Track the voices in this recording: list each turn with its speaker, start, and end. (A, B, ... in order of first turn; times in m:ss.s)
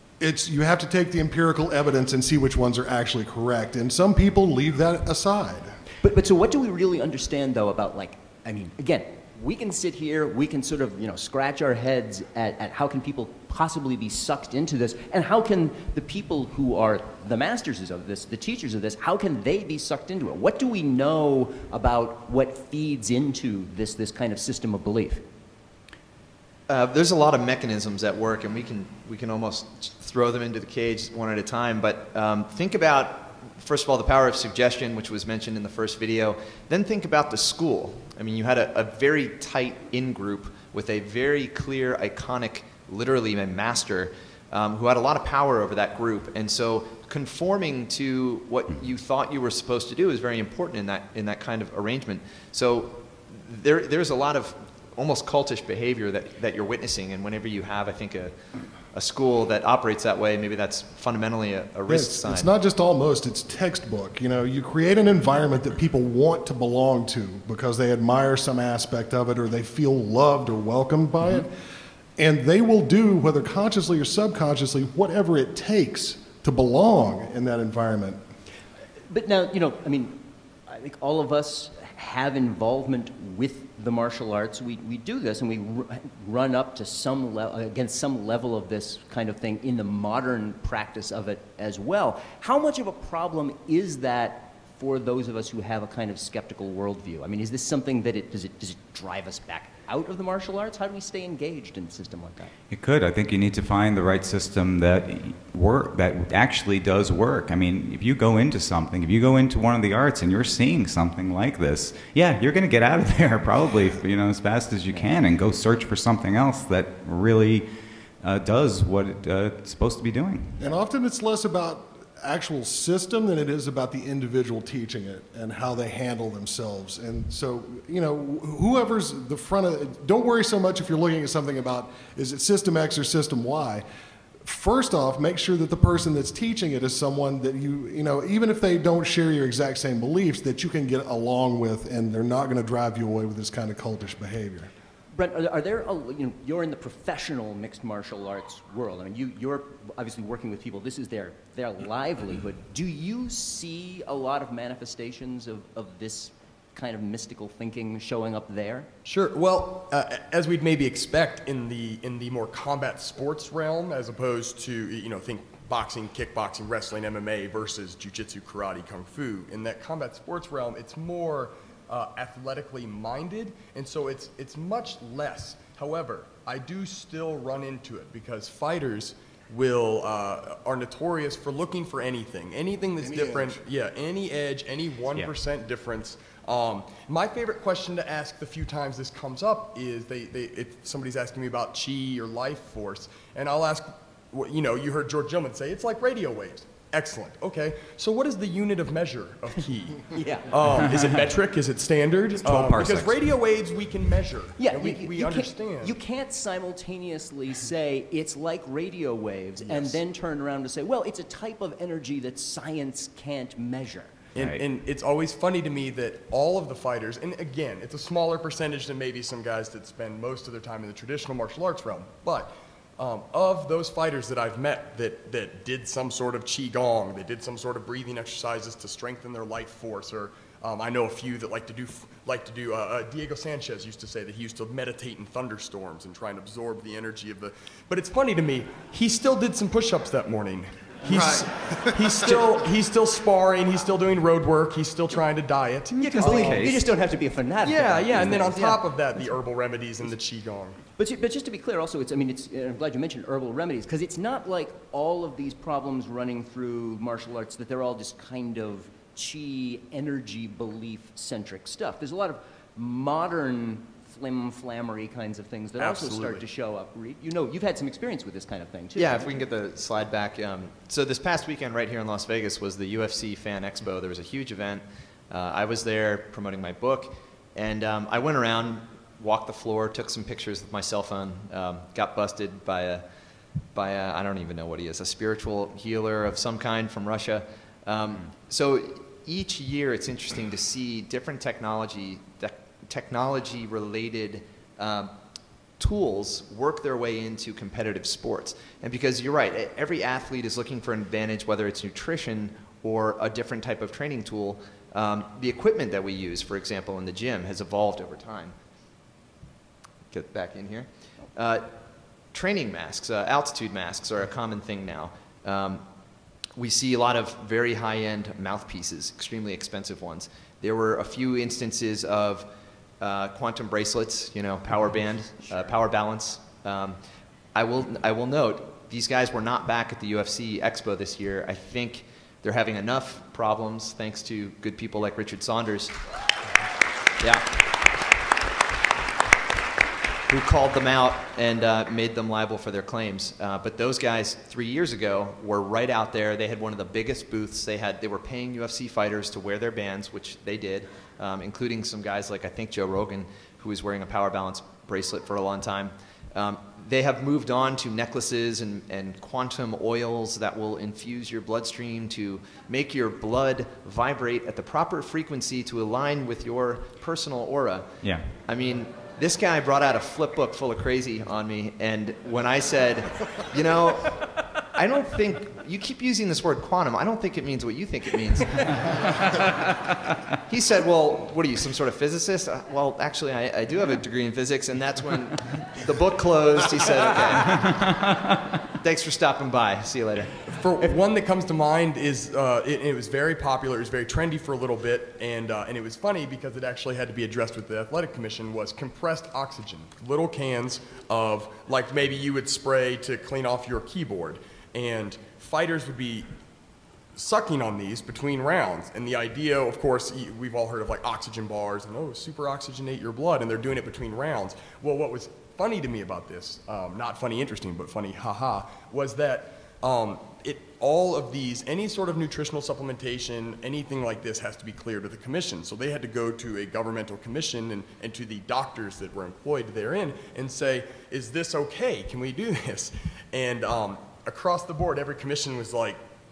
0:00.2-0:05.7 A
0:06.0-0:25.2 B
0:26.7-0:58.3 C
0:58.9-1:02.5 C
1:01.9-1:11.5 A
1:12.2-1:18.2 A
1:19.1-1:42.5 B
1:42.7-1:57.7 D
1:58.2-2:00.6 D
2:00.6-2:13.8 A
2:14.4-2:24.7 A
2:25.2-2:38.9 B
2:39.0-3:26.0 E
3:03.0-3:03.6 A
3:20.1-3:20.5 B
3:22.4-3:23.2 D
3:24.6-3:34.1 B
3:29.6-3:30.0 E
3:34.3-4:06.9 E
3:34.4-3:34.6 D
4:01.1-4:02.5 A
4:06.0-4:08.8 B
4:06.1-4:06.7 D
4:07.6-4:10.8 E
4:11.0-4:29.2 B
4:25.8-4:26.4 E
4:29.0-4:43.0 C
4:43.7-4:55.1 C
4:55.8-5:08.5 C
5:10.1-5:11.6 C
5:12.3-5:15.8 C
5:16.6-5:22.5 C
5:23.0-5:27.0 C
5:27.5-5:36.0 C
5:37.2-5:37.4 C
5:40.3-6:19.0 C
6:20.5-6:28.0 C
6:28.8-6:30.4 C
6:30.5-6:46.2 E
6:47.1-7:16.0 E